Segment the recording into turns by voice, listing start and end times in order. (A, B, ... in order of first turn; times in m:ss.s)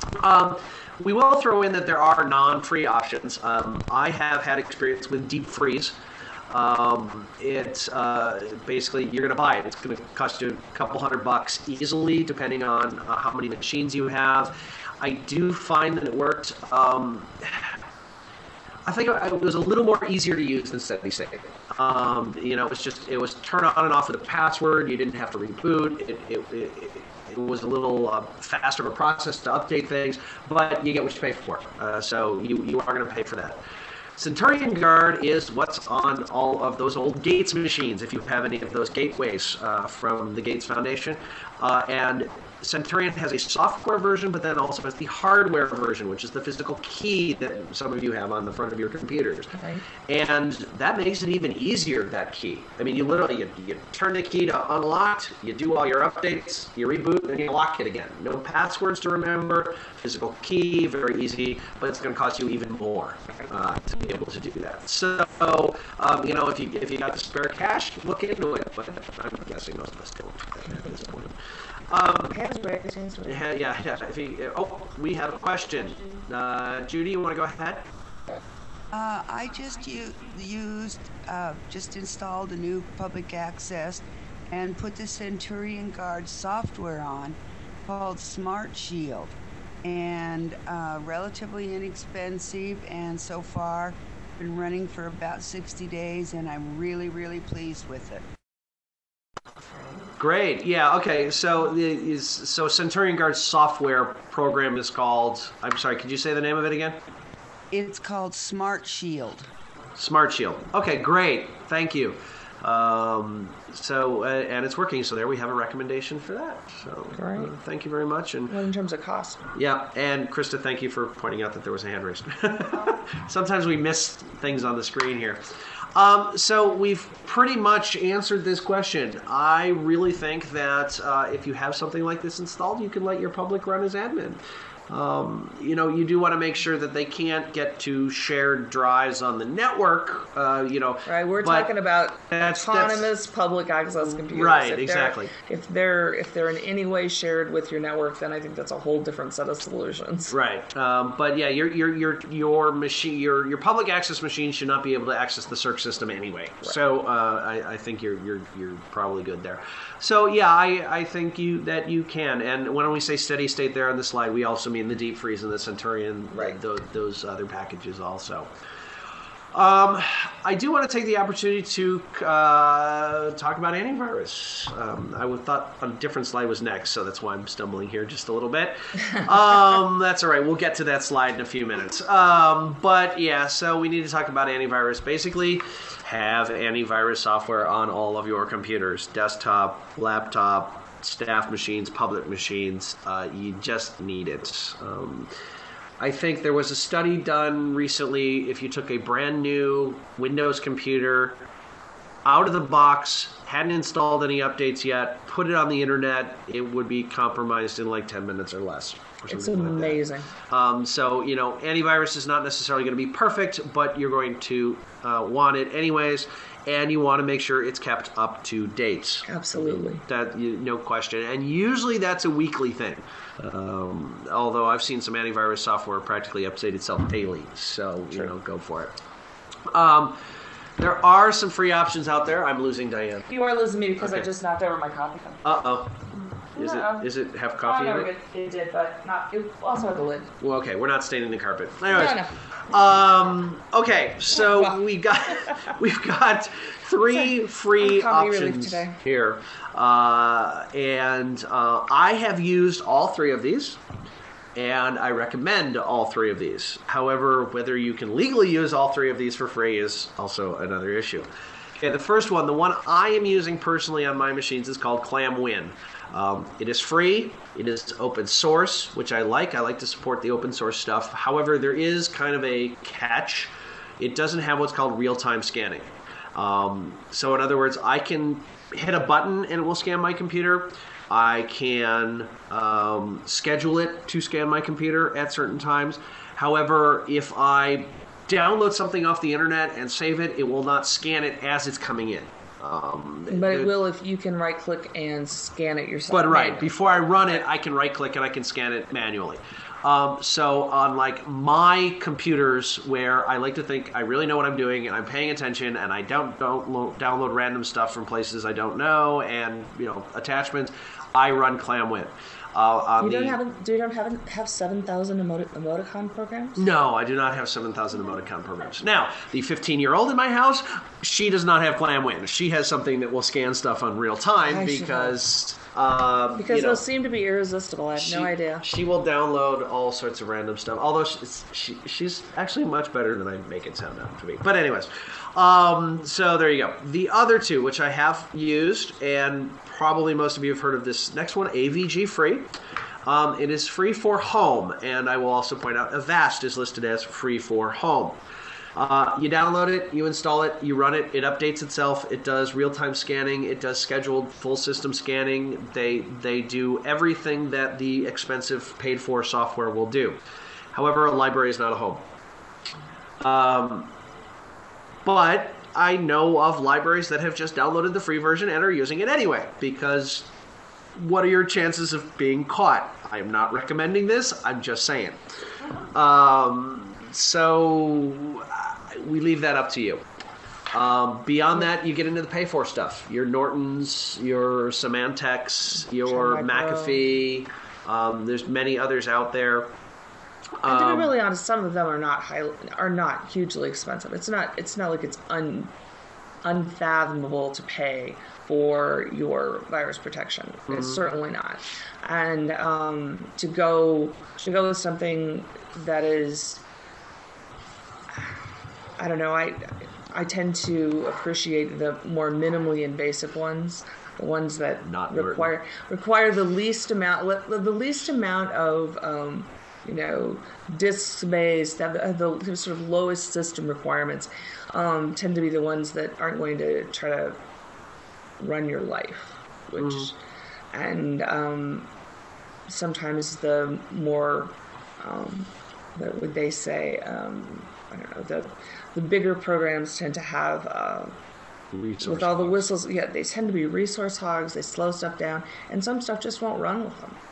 0:00.2-0:06.0 A
0:06.5-0:17.8 A
0:18.8-0:33.6 A
0:34.2-0:49.6 A
0:49.6-0:49.8 B
0:50.1-1:11.4 A
1:11.9-1:12.4 A
1:12.3-1:13.4 B
1:13.3-1:17.8 A
1:18.9-1:29.3 C
1:29.8-1:38.2 C
1:40.2-1:47.0 A
1:47.7-1:49.5 C
1:50.0-1:58.5 A
1:57.2-1:57.5 B
1:58.5-1:59.5 B
1:59.6-2:05.4 A
2:06.0-2:21.7 A
2:21.1-2:30.4 B
2:22.3-2:23.1 A
2:24.0-2:25.3 A
2:30.3-2:48.5 A
2:46.3-2:46.6 B
2:49.5-3:15.3 A
3:16.0-3:21.4 A
3:22.2-3:48.9 A
3:29.3-3:30.3 B
3:39.3-3:40.0 B
3:49.7-3:50.2 A
3:50.8-3:53.3 A
3:53.3-3:55.4 B
3:54.0-3:54.2 A
3:55.4-3:56.0 A
3:56.5-3:57.1 B
3:56.6-3:58.1 A
3:57.6-4:00.3 B
4:00.4-4:13.8 A
4:01.9-4:02.4 B
4:04.4-4:04.8 B
4:07.1-4:09.0 B
4:14.6-4:53.8 A
4:53.3-4:57.4 B
4:56.1-5:13.4 A
5:13.0-5:16.6 B
5:16.6-5:26.8 A
5:24.4-5:25.2 B
5:26.4-5:28.6 B
5:28.0-5:42.5 A
5:43.0-5:48.2 A
5:48.8-6:00.2 A
6:00.7-6:02.1 A
6:03.2-6:03.9 A
6:05.0-6:10.3 A
6:11.0-6:15.2 A
6:15.8-6:20.0 A
6:20.7-6:29.7 A
6:25.8-6:27.1 B
6:30.6-6:31.1 A
6:30.6-6:35.7 B
6:36.4-6:46.6 B
6:40.7-6:41.0 A
6:49.0-7:07.4 B
6:54.8-6:55.5 A
7:08.4-7:10.2 B
7:09.8-7:10.1 A
7:10.7-7:11.9 B
7:12.7-7:21.2 B
7:21.7-7:22.7 A
7:22.0-7:27.2 B